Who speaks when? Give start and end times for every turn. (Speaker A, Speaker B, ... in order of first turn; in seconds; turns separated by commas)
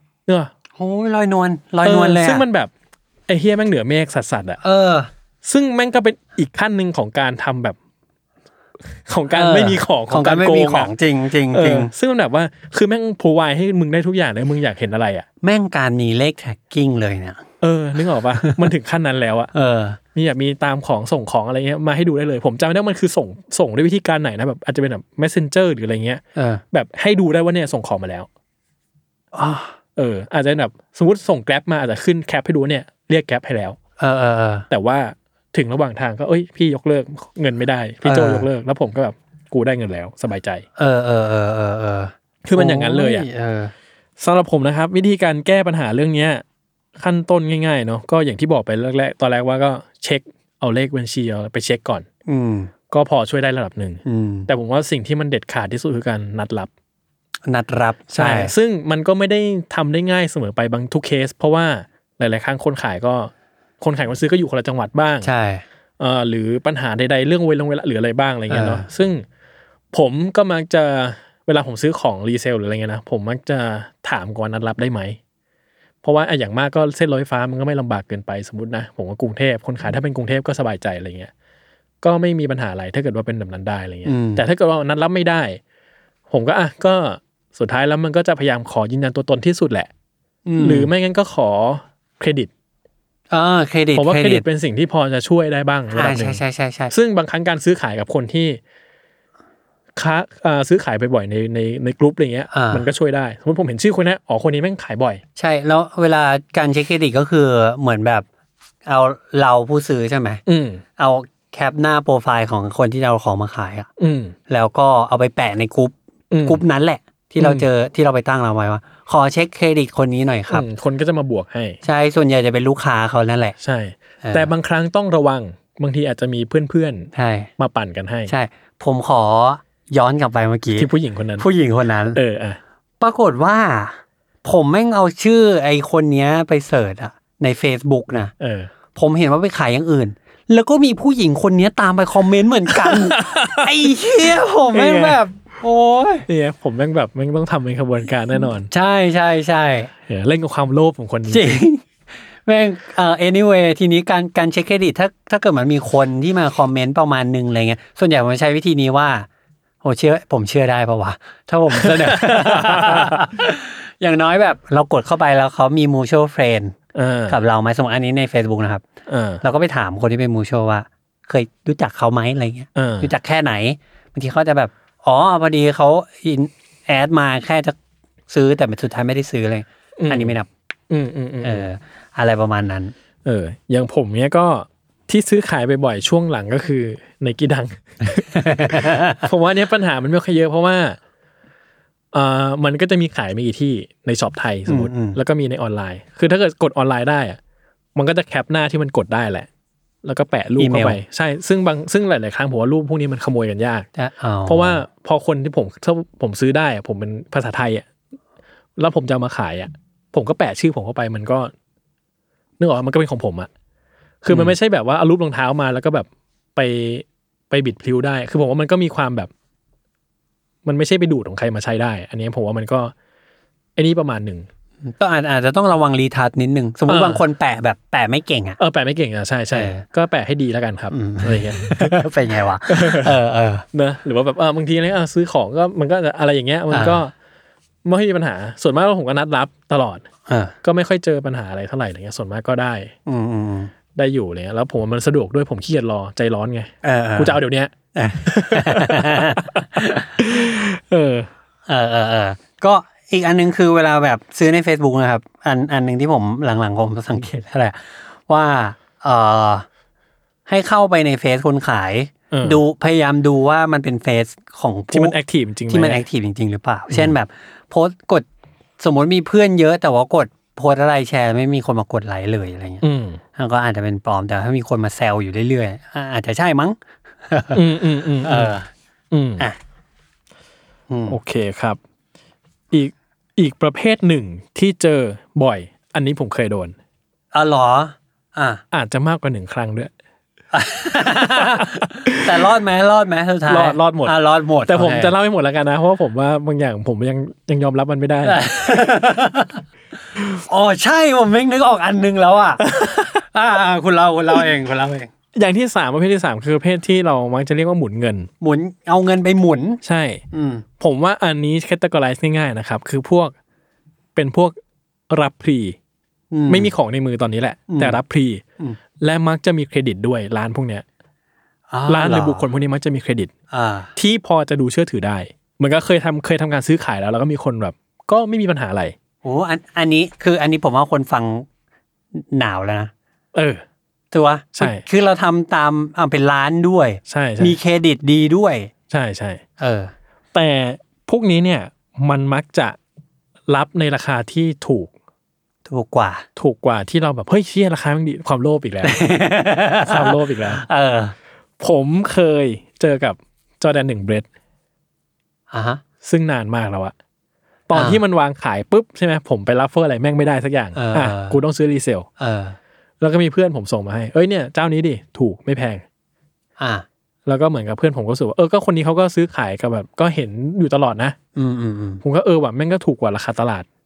Speaker A: 0.8-2.4, Speaker B: 1.8-2.7, Speaker B: 3.3-4.6, Speaker A: 4.6-5.1, Speaker B: 5.4-7.8, Speaker B: 9.1-10.9, Speaker A: 9.3-11.9, Speaker B: 11.5-15.2, Speaker A: 15.4-17.4, Speaker B: 17.6-19.5, Speaker A: 18.4-18.6, Speaker A: 19.5-20.0, Speaker B: 20.1-26.2, Speaker A: 26.3-26.6, Speaker B: 26.7-28.3, Speaker A: 29.3-29.8, Speaker B: 29.9-33.8, Speaker A: 34.0-34.7, Speaker B: 34.7-40.6, Speaker A: 38.0-38.5, Speaker A: 40.8-43.7, Speaker B: 42.4-43.3, Speaker B: 44.2-46.4, Speaker B: 47.0-52.0, Speaker A: 52.2-52.7, Speaker B: 52.9-56.7, Speaker A: 54.0-54.5, Speaker A: 57.5-58.5, Speaker B: 58.1-65.3, Speaker A: 65.2-65.6, Speaker B: 66.0-69.2, Speaker A: 68.5-68.8, Speaker B: 69.9-75.2, Speaker B: 76.0-81.3, Speaker B: 82.0-85.6, Speaker A: 84.0-84.4, Speaker B: 86.3-89.9, Speaker A: 90.5-90.9, Speaker B: 90.6-92.5, Speaker A: 93.3-94.4, Speaker B: 93.9-98.6, Speaker A: 95.9-96.9, Speaker B: 100.0-105.2, Speaker A: 102.5-102.8, Speaker A: 105.3-108.2, Speaker A: 108.8-110.4, Speaker B: 110.5-110.8, Speaker A: 111.0-113.9, Speaker B: 114.0-114.3, Speaker A: 114.5-120.6, Speaker B: 116.3-116.6, Speaker B: 117.4-117.7, Speaker B: 120.5-121.8, Speaker A: 121.8-123.5, Speaker B: 123.6-128.3, Speaker A: 124.2-124.5, Speaker A: 127.1-127.5, Speaker A: 128.3-132.2, Speaker B: 130.7-131.4, Speaker B: 132.1-132.6, Speaker A: 133.0-138.3, Speaker B: 138.4-138.7, Speaker A: 138.9-146.2, Speaker B: 142.8-143.7, Speaker B: 144.2-145.2, Speaker B: 146.3-148.7, Speaker A: 148.7-149.9, Speaker B: 150.1-151.6, Speaker A: 151.3-151.8, Speaker A: 152.4-159.3, Speaker A: 159.8-166.7, Speaker B: 161.7-163.3, Speaker B: 166.9-167.4, Speaker A: 167.3-168.8, Speaker B: 169.1-169.4, Speaker A: 169.4-177.7, Speaker B: 172.8-173.1, Speaker A: 178.3-180.5, Speaker B: 180.0-180.3, Speaker B: 180.9-181.7, Speaker A: 181.4-182.9, Speaker B: 183.2-191.0, Speaker A: 188.3-189.2, Speaker B: 192.1-197.4, Speaker A: 194.7-195.2, Speaker B: 197.9-199.5, Speaker B: 200.0-203.9, Speaker A: 200.6-201.0, Speaker A: 203.9-204.8, Speaker B: 204.4-207.8, Speaker B: 208.8-211.5, Speaker B: 212.6-213.5, Speaker B: 214.2-219.3, Speaker B: 220.6-222.9, Speaker B: 223.8-224.5, Speaker A: 224.8-228.6, Speaker B: 226.9-227.2, Speaker B: 228.6-232.0, Speaker A: 229.5-229.8, Speaker A: 230.9-233.6, Speaker B: 232.7-233.1, Speaker B: 233.7-237.1, Speaker A: 236.7-237.0, Speaker B: 237.8-240.0, Speaker A: 240.3-240.5, Speaker B: 240.6-242.9, Speaker A: 243.1-243.7, Speaker B: 243.9-247.7, Speaker A: 246.8-247.4, Speaker A: 247.9-250.1, Speaker B: 248.2-251.3, Speaker A: 251.7-259.6, Speaker A: 260.5-265.2, Speaker B: 262.3-262.6, Speaker B: 264.9-266.0, Speaker A: 265.7-268.2, Speaker A: 268.8-272.8, Speaker B: 272.8-273.2, Speaker A: 273.4-276.8, Speaker A: 277.3-277.6, Speaker B: 277.5-278.5, Speaker A: 278.2-278.7, Speaker B: 279.1-279.4, Speaker A: 280.9-281.2, Speaker B: 281.1-281.8, Speaker B: 282.7-286.7, Speaker A: 287.3-288.6, Speaker B: 288.7-289.9, Speaker A: 290.5-295.1, Speaker B: 291.6-292.4, Speaker B: 293.5-294.1, Speaker B: 294.6-298.4, Speaker A: 298.2-299.6, Speaker A: 300.4-305.1, Speaker B: 302.7-303.2, Speaker B: 305.3-308.3, Speaker A: 308.4-309.8, Speaker B: 309.8-310.2, Speaker A: 310.3-310.6, Speaker B: 310.8-313.3, Speaker B: 314.1-314.5, Speaker B: 315.1-315.8, Speaker A: 316.3-316.7, Speaker B: 316.5-318.4, Speaker A: 317.7-318.0, Speaker B: 319.0-320.8, Speaker A: 321.7-322.4, Speaker B: 321.9-323.3, Speaker A: 323.5-323.9, Speaker B: 323.9-328.9, Speaker A: 329.2-331.4, Speaker A: 332.1-332.9, Speaker B: 333.3-333.6, Speaker A: 334.1-338.7, Speaker B: 334.6-334.8, Speaker B: 337.1-337.6, Speaker B: 338.9-339.4, Speaker A: 339.6-339.9, Speaker B: 340.3-342.8, Speaker B: 343.5-344.9, Speaker A: 345.7-346.2, Speaker B: 346.4-349.0, Speaker A: 348.8-351.1, Speaker B: 349.9-350.6, Speaker B: 351.6-354.2, Speaker A: 355.5-355.8, Speaker B: 356.0-356.9, Speaker B: 357.7-362.1, Speaker A: 357.7-358.0, Speaker A: 360.7-361.4, Speaker A: 362.2-362.6, Speaker B: 363.0-365.8, Speaker A: 366.6-366.8, Speaker B: 367.2-371.1, Speaker A: 371.4-372.0, Speaker B: 372.0-373.6